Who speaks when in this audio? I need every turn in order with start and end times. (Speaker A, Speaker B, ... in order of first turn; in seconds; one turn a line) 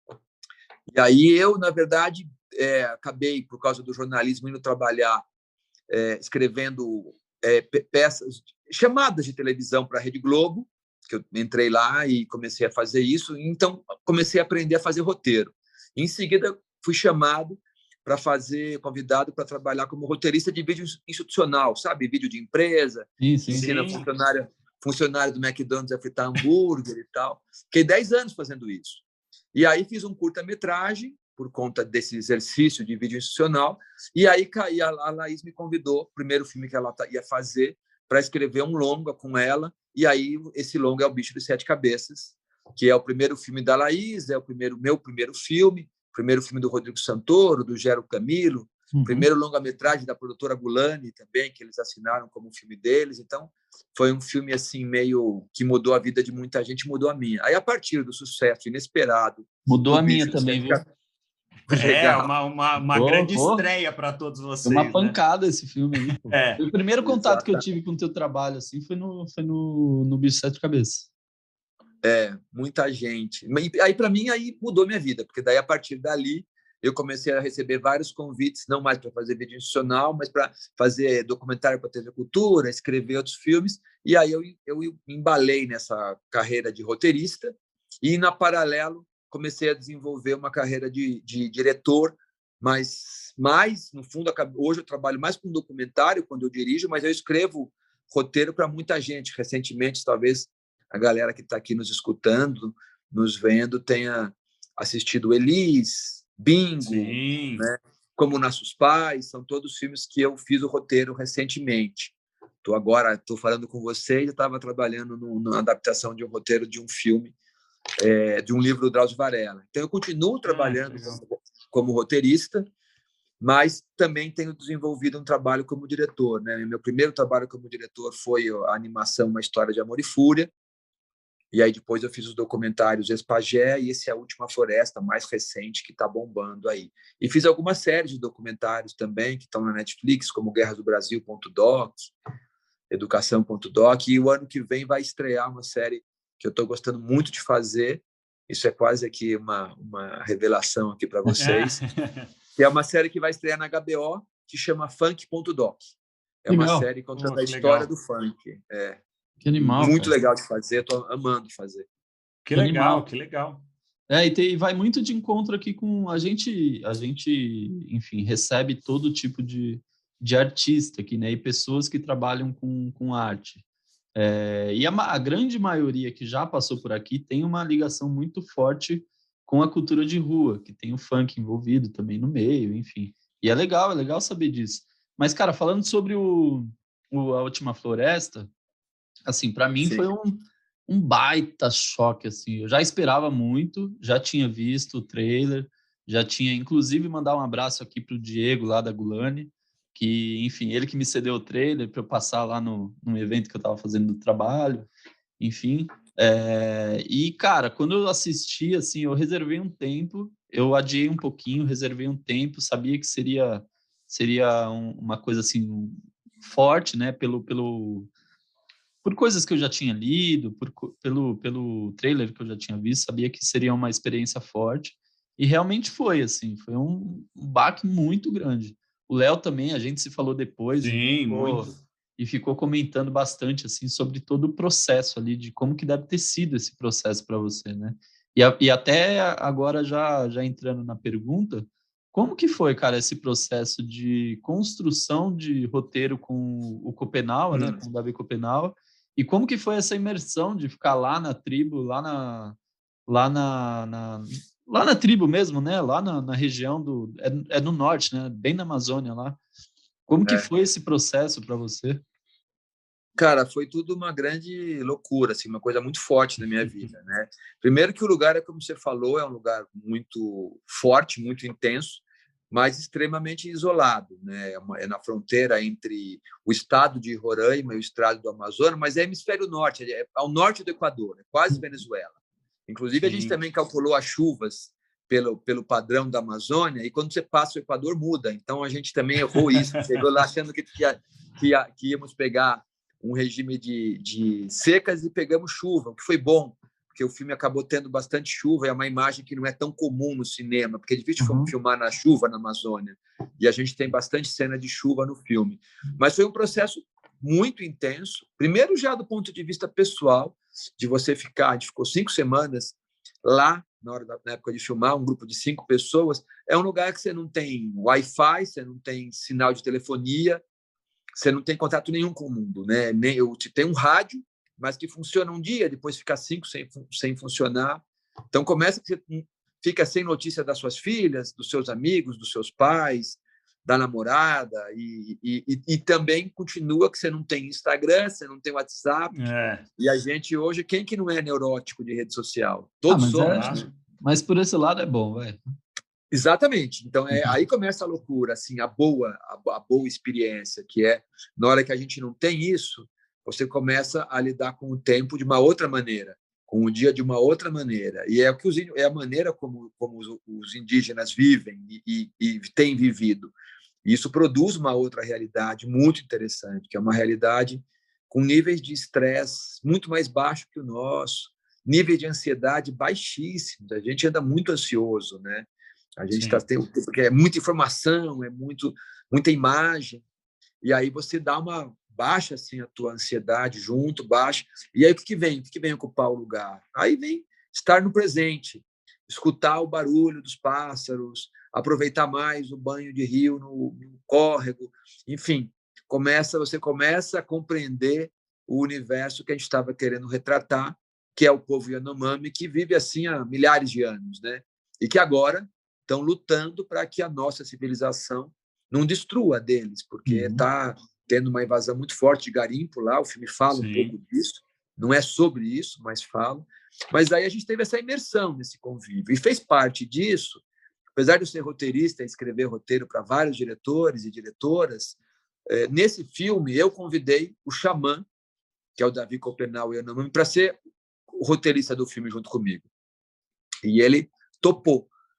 Speaker A: 0.9-5.2
Speaker A: 5.9-29.0
Speaker B: 23.2-23.7
Speaker C: 23.5-24.1
Speaker A: 29.5-60.9
Speaker B: 48.9-49.3
Speaker B: 59.7-60.8
Speaker A: 61.7-62.3
Speaker C: 61.7-65.2
Speaker B: 62.9-63.6
Speaker B: 64.6-71.1
Speaker C: 66.0-66.6
Speaker A: 67.0-67.6
Speaker A: 72.0-117.3
Speaker C: 106.8-107.6
Speaker A: 118.0-122.7
Speaker C: 120.5-121.2
Speaker A: 123.4-130.5
Speaker A: 131.5-142.1
Speaker A: 142.9-151.8
Speaker C: 151.3-152.3
Speaker A: 152.6-155.8
Speaker A: 156.4-159.0
Speaker B: 156.5-156.9
Speaker C: 157.2-157.9
Speaker B: 159.4-160.2
Speaker A: 159.6-161.9
Speaker C: 162.4-163.7
Speaker B: 162.5-163.1
Speaker B: 164.1-173.6
Speaker B: 174.1-188.5
Speaker B: 189.2-218.1
Speaker A: 189.8-190.1
Speaker B: 219.0-252.6
Speaker C: 230.8-231.8
Speaker A: 247.5-247.8
Speaker B: 253.1-259.4
Speaker B: 260.1-262.0
Speaker A: 263.2-282.1
Speaker A: 282.7-320.4
Speaker C: 283.0-283.4
Speaker C: 289.5-290.0
Speaker B: 301.2-301.5
Speaker A: 321.1-339.1
Speaker C: 339.1-339.6
Speaker A: 339.8-343.7
Speaker B: 342.9-345.4
Speaker C: 343.2-343.6
Speaker A: 346.1-363.3
Speaker A: 363.8-380.0
Speaker C: 376.1-376.4
Speaker A: 380.6-420.4
Speaker B: 410.1-410.4
Speaker C: 413.5-413.9
Speaker A: 420.9-425.0
Speaker A: 425.5-428.1
Speaker A: 428.8-430.6
Speaker A: 431.1-432.7
Speaker A: 433.6-434.9